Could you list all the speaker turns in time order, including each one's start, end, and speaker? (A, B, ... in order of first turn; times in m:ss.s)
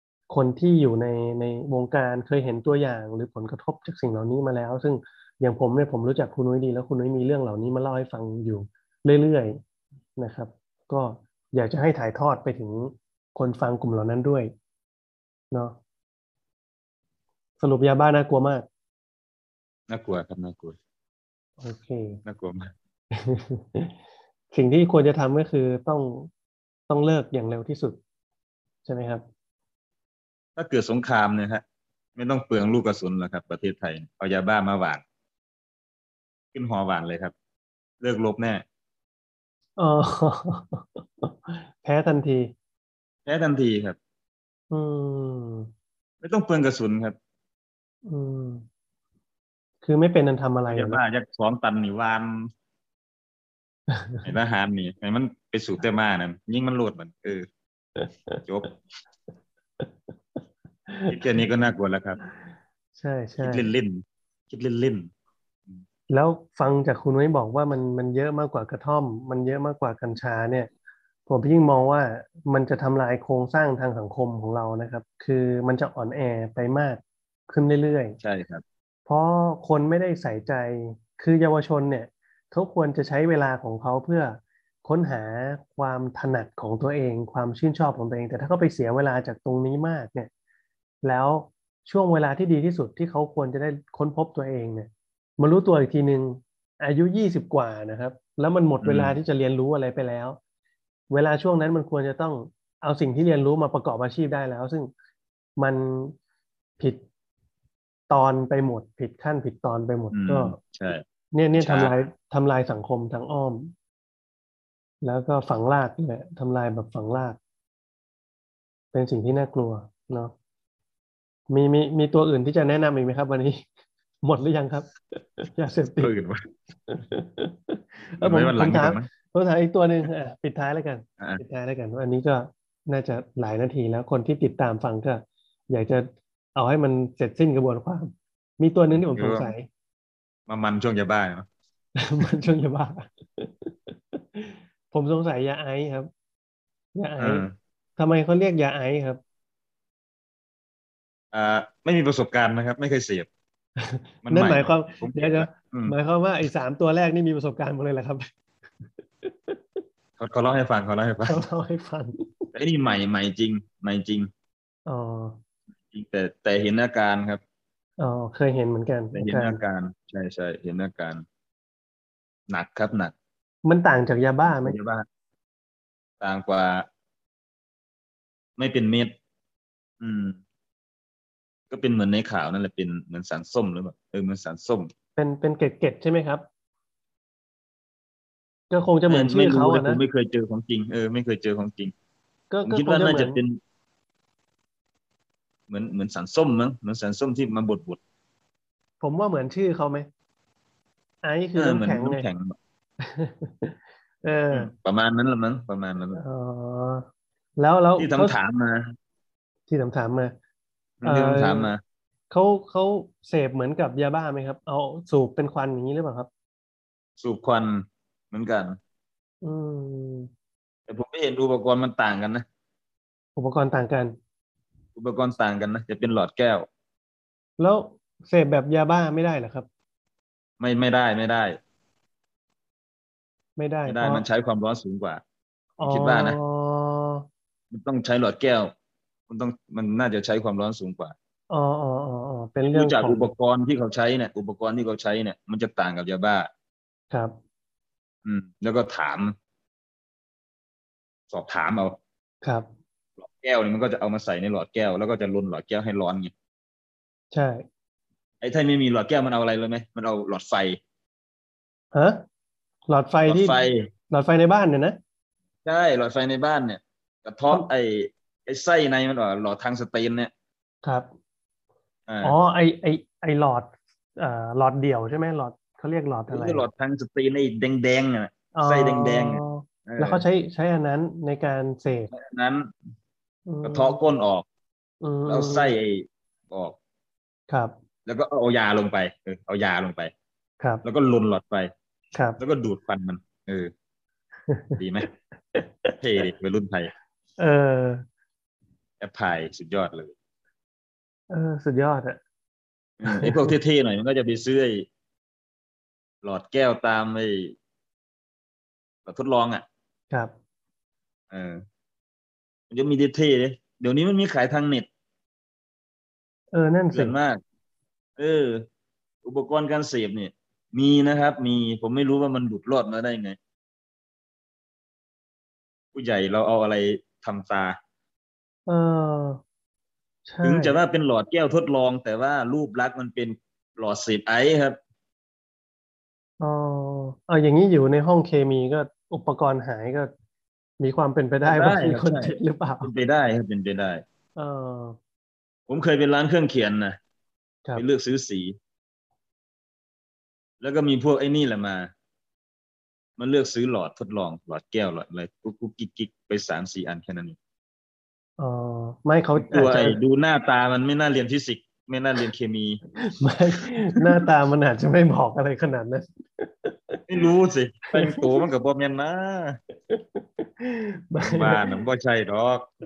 0:00.3-0:09.6 A
0:10.2-0:14.5 A
0:15.5-0:15.8 A
0:17.6-0:18.7 A
0:19.9-0:20.8 B
0:21.6-0:22.2 A
0:22.2-0:22.7 B
0:23.1-0:23.9 A
0:24.5-0:26.3 A
0:26.9-0:28.0 A
0:28.9-0:29.2 A
0:30.6-0:31.6 B
0:32.2-0:35.0 B
0:36.5-0:37.3 B
0:38.0-0:38.6 B
0:39.8-0:42.5 A
0:43.3-0:44.0 B
0:44.7-0:45.7 A
0:46.2-0:47.2 B
0:48.1-0:48.7 A
0:49.8-0:51.0 A
0:50.7-0:52.5 B
0:53.9-0:54.2 A
0:54.2-0:57.5 B
0:58.0-0:58.4 A
0:58.5-0:58.7 B
1:00.9-1:01.2 A
1:01.1-1:02.2 B
1:03.0-1:03.7 A
1:03.4-1:05.1 B
1:06.1-1:10.7 A
1:11.3-1:18.2 A
1:18.2-1:18.6 B
1:19.1-1:30.3 A
1:31.0-1:40.4 A
1:38.8-1:39.2 B
1:41.1-1:44.9 A
1:45.6-1:46.2 A
1:48.1-1:50.6 A
1:50.1-1:51.0 B
1:51.3-1:53.7 A
1:51.6-1:51.9 B
1:55.0-1:57.4 A
1:58.9-2:00.3 A
2:01.5-2:03.7 A
2:04.2-2:06.1 A
2:06.0-2:06.4 B
2:06.9-2:19.7 A
2:08.2-2:09.1 B
2:19.0-2:19.5 B
2:20.5-2:21.5 B
2:22.0-2:26.1 A
2:27.0-2:27.5 A
2:27.2-2:27.5 B
2:28.0-2:29.2 A
2:31.3-2:33.3 B
2:33.8-2:38.3 A
2:34.2-2:36.0 B
2:39.2-2:39.8 A
2:40.2-2:41.4 B
2:41.2-2:42.5 A
2:42.6-2:44.3 B
2:44.9-2:45.4 A
2:45.9-2:47.4 B
2:48.0-2:49.6 A
2:49.1-2:51.2 B
2:52.5-2:53.1 B
2:53.6-2:54.8 A
2:54.5-2:55.0 B
2:56.2-2:56.9 B
2:58.6-2:59.1 B
3:00.0-3:00.4 B
3:01.7-3:04.9 B
3:05.2-3:06.4 A
3:08.7-3:10.0 A
3:09.1-3:11.9 B
3:12.5-3:13.4 A
3:12.7-3:13.6 B
3:15.7-3:18.0 B
3:19.0-3:20.1 A
3:21.2-3:22.2 A
3:21.6-3:22.6 B
3:23.0-3:24.7 A
3:24.5-3:26.2 B
3:26.1-3:27.1 A
3:27.6-3:28.4 A
3:28.0-3:29.0 B
3:29.7-3:30.4 A
3:31.0-3:31.8 B
3:31.0-3:31.7 A
3:32.3-3:36.3 A
3:37.2-3:38.8 B
3:39.4-3:40.3 A
3:40.9-3:42.4 B
3:43.4-3:44.2 A
3:45.0-3:46.7 B
3:47.6-3:49.7 A
3:50.6-3:51.6 B
3:53.6-3:54.2 A
3:53.9-3:55.2 B
3:55.8-3:57.2 A
3:55.9-3:56.4 B
3:57.7-3:58.7 B
3:59.3-4:01.1 B
4:01.5-4:03.3 A
4:02.7-4:06.5 B
4:08.2-4:09.3 B
4:11.3-4:12.0 B
4:12.4-4:12.7 A
4:13.2-4:16.3 B
4:17.3-4:17.7 A
4:18.4-4:20.8 B
4:21.9-4:22.2 A
4:22.9-4:25.0 A
4:23.2-4:23.9 B
4:25.6-4:30.3 B
4:30.8-4:31.1 A
4:32.1-4:32.3 B
4:32.2-4:36.7 A
4:36.3-4:40.2 B
4:38.5-4:42.1 A
4:42.1-4:42.7 B
4:43.5-4:44.0 A
4:43.6-4:44.5 B
4:45.0-4:45.7 A
4:45.3-4:46.8 B
4:48.1-4:50.1 B
4:50.8-4:51.7 B
4:52.1-4:52.4 A
4:52.4-4:53.7 B
4:54.5-4:54.8 A
4:54.8-4:55.1 B
4:55.5-4:55.9 A
4:56.0-4:56.9 B
4:57.4-4:58.0 A
4:59.0-5:00.1 B
5:01.3-5:02.2 A
5:03.0-5:04.9 B
5:03.0-5:03.5 A
5:06.2-5:07.6 B
5:09.1-5:09.6 B
5:11.3-5:11.6 B
5:12.7-5:14.9 B
5:16.5-5:17.2 A
5:16.9-5:17.4 B
5:18.2-5:18.7 B
5:19.2-5:23.4 B
5:25.9-5:27.8 B
5:28.7-5:29.4 A
5:30.3-5:30.8 A
5:30.4-5:34.8 B
5:36.4-5:40.1 A
5:40.8-5:42.9 A
5:41.5-5:44.0 B
5:44.4-5:45.0 A
5:45.7-5:47.0 B
5:47.8-5:48.6 B
5:50.6-5:51.9 B
5:53.2-5:57.4 B
5:58.4-6:00.0 A
5:59.4-6:02.8 B
6:03.0-6:07.1 A
6:04.0-6:04.3 B
6:07.1-6:09.6 B
6:08.0-6:08.2 A
6:09.9-6:11.8 A
6:11.2-6:12.7 B